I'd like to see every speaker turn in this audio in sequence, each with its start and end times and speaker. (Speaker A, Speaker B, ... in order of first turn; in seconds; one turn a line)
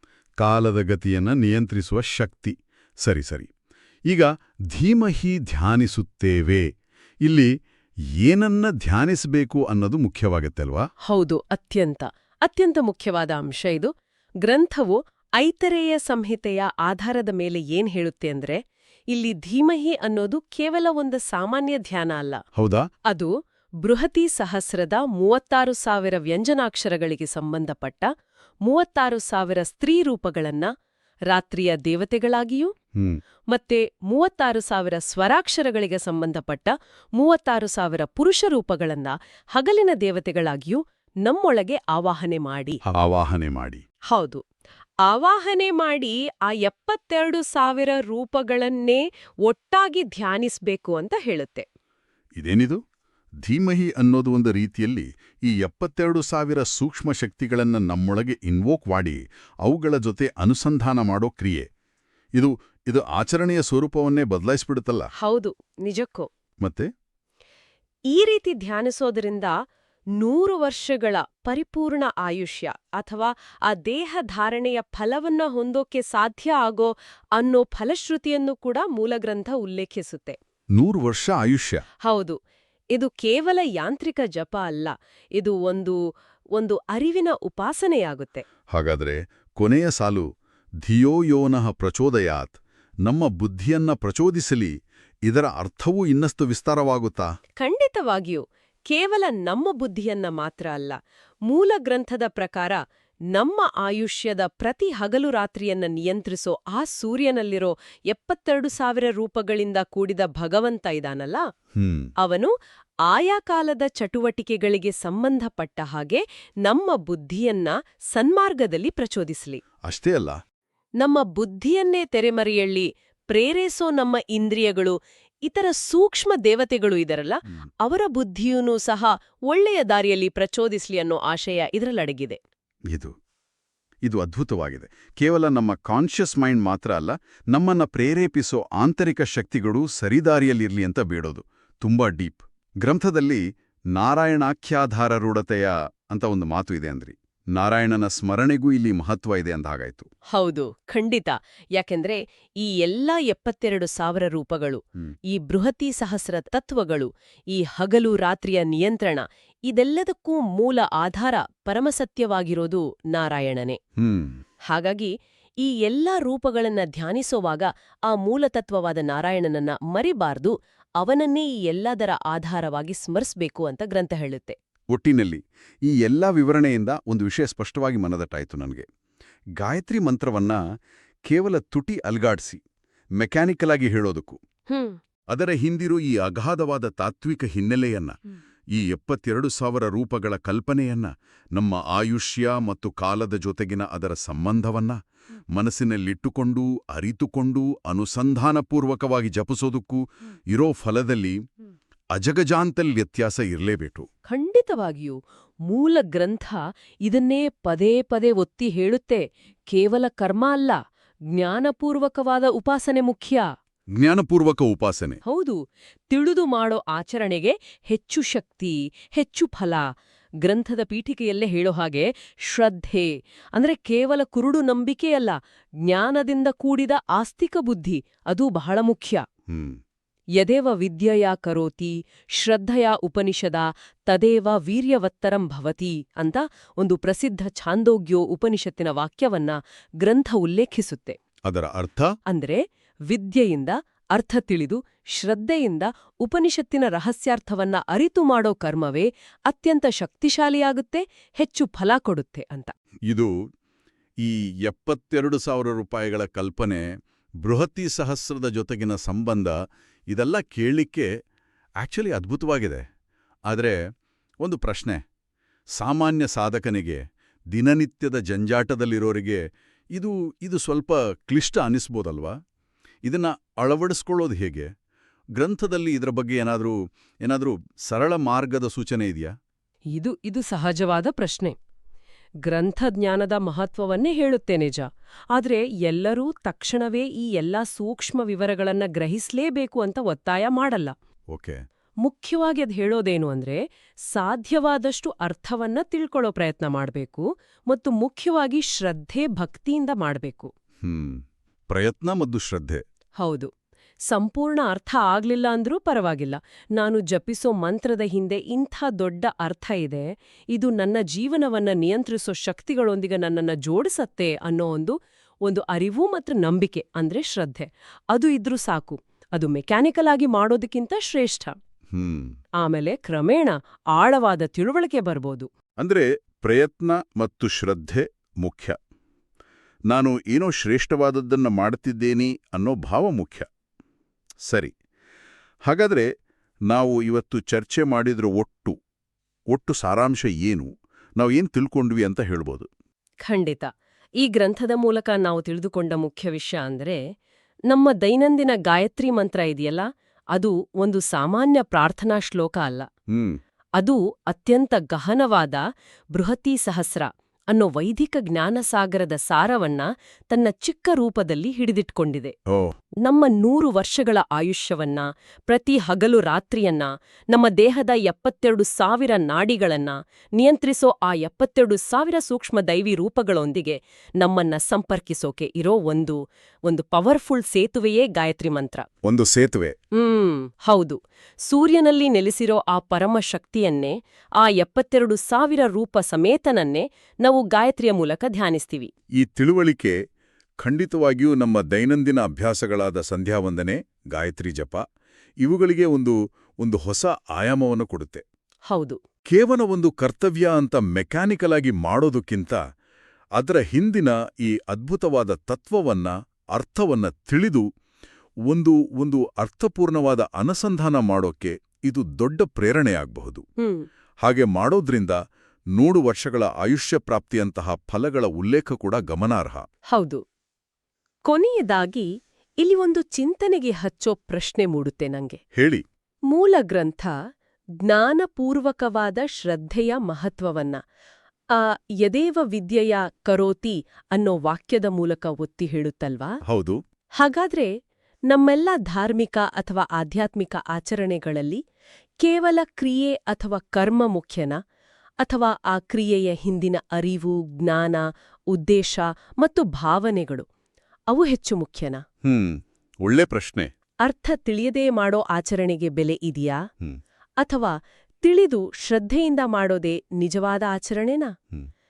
Speaker A: 0.4-3.5
Speaker A: 4.1-6.7
Speaker A: 7.2-7.5
Speaker A: 8.2-10.8
Speaker B: 11.1-13.9
Speaker B: 14.4-18.6
Speaker B: 19.1-22.4
Speaker A: 22.6-22.8
Speaker B: 23.1-28.1
Speaker B: 28.6-30.7
Speaker B: 31.3-32.7
Speaker A: 33.0-33.2
Speaker B: 33.5-42.8
Speaker A: 42.9-43.8
Speaker B: 44.1-44.4
Speaker B: 45.1-51.7
Speaker A: 52.4-52.8
Speaker A: 53.4-61.7
Speaker A: 62.4-65.1
Speaker B: 65.2-66.3
Speaker A: 66.6-66.9
Speaker B: 68.1-69.5
Speaker B: 70.2-80.4
Speaker A: 80.8-81.8
Speaker B: 82.0-82.4
Speaker B: 82.9-86.0
Speaker B: 86.5-88.4
Speaker A: 88.7-90.3
Speaker A: 90.8-94.7
Speaker A: 95.3-97.2
Speaker B: 97.6-102.8
Speaker B: 103.3-111.4
Speaker A: 111.8-112.1
Speaker B: 112.2-112.5
Speaker B: 113.1-119.6
Speaker A: 119.8-120.4
Speaker B: 121.0-132.4
Speaker A: 134.1-143.4
Speaker A: 143.9-150.1
Speaker B: 150.3-163.8
Speaker A: 164.0-164.4
Speaker B: 164.7-174.6
Speaker A: 174.9-178.8
Speaker A: 179.6-180.6
Speaker A: 181.3-182.6
Speaker A: 183.2-184.4
Speaker B: 184.7-185.0
Speaker A: 185.3-188.2
Speaker A: 188.7-195.0
Speaker A: 195.5-201.4
Speaker A: 202.1-204.1
Speaker B: 204.3-205.2
Speaker B: 205.7-210.8
Speaker B: 211.3-213.4
Speaker A: 214.0-215.2
Speaker B: 215.2-219.8
Speaker B: 220.4-229.2
Speaker A: 229.5-229.8
Speaker B: 230.4-241.2
Speaker A: 241.5-242.1
Speaker B: 242.3-252.7
Speaker A: 254.2-256.8
Speaker A: 257.4-259.6
Speaker A: 260.1-261.1
Speaker A: 261.8-262.8
Speaker A: 263.5-263.8
Speaker A: 264.4-265.0
Speaker A: 265.8-269.4
Speaker A: 269.9-272.3
Speaker A: 273.1-274.7
Speaker A: 275.4-279.3
Speaker B: 279.9-281.6
Speaker B: 282.4-290.9
Speaker A: 291.3-291.6
Speaker B: 292.0-300.5
Speaker A: 300.8-302.8
Speaker B: 303.2-303.5
Speaker B: 304.1-321.6
Speaker A: 321.9-322.3
Speaker B: 322.6-325.5
Speaker A: 325.8-328.8
Speaker A: 329.9-333.5
Speaker A: 334.5-334.7
Speaker A: 335.6-336.1
Speaker A: 336.7-338.8
Speaker A: 339.5-342.7
Speaker B: 343.2-347.0
Speaker B: 347.7-352.9
Speaker A: 353.1-353.4
Speaker B: 353.8-362.3
Speaker B: 363.0-378.8
Speaker A: 379.0-379.7
Speaker B: 379.9-388.9
Speaker A: 389.2-390.0
Speaker A: 390.6-394.8
Speaker A: 395.4-398.2
Speaker B: 398.7-399.0
Speaker A: 399.3-402.6
Speaker A: 403.4-407.6
Speaker A: 408.5-413.4
Speaker B: 413.6-413.9
Speaker A: 414.2-415.2
Speaker A: 415.8-419.6
Speaker B: 419.9-420.2
Speaker B: 421.3-422.1
Speaker B: 422.6-425.4
Speaker A: 425.5-425.8
Speaker B: 426.3-427.1
Speaker B: 427.8-430.8
Speaker B: 431.5-436.4
Speaker A: 436.4-436.8
Speaker B: 437.2-437.7
Speaker B: 438.3-441.6
Speaker B: 442.2-444.6
Speaker B: 445.2-450.5
Speaker B: 451.1-452.0
Speaker A: 452.2-453.7
Speaker B: 454.0-456.6
Speaker B: 457.4-461.3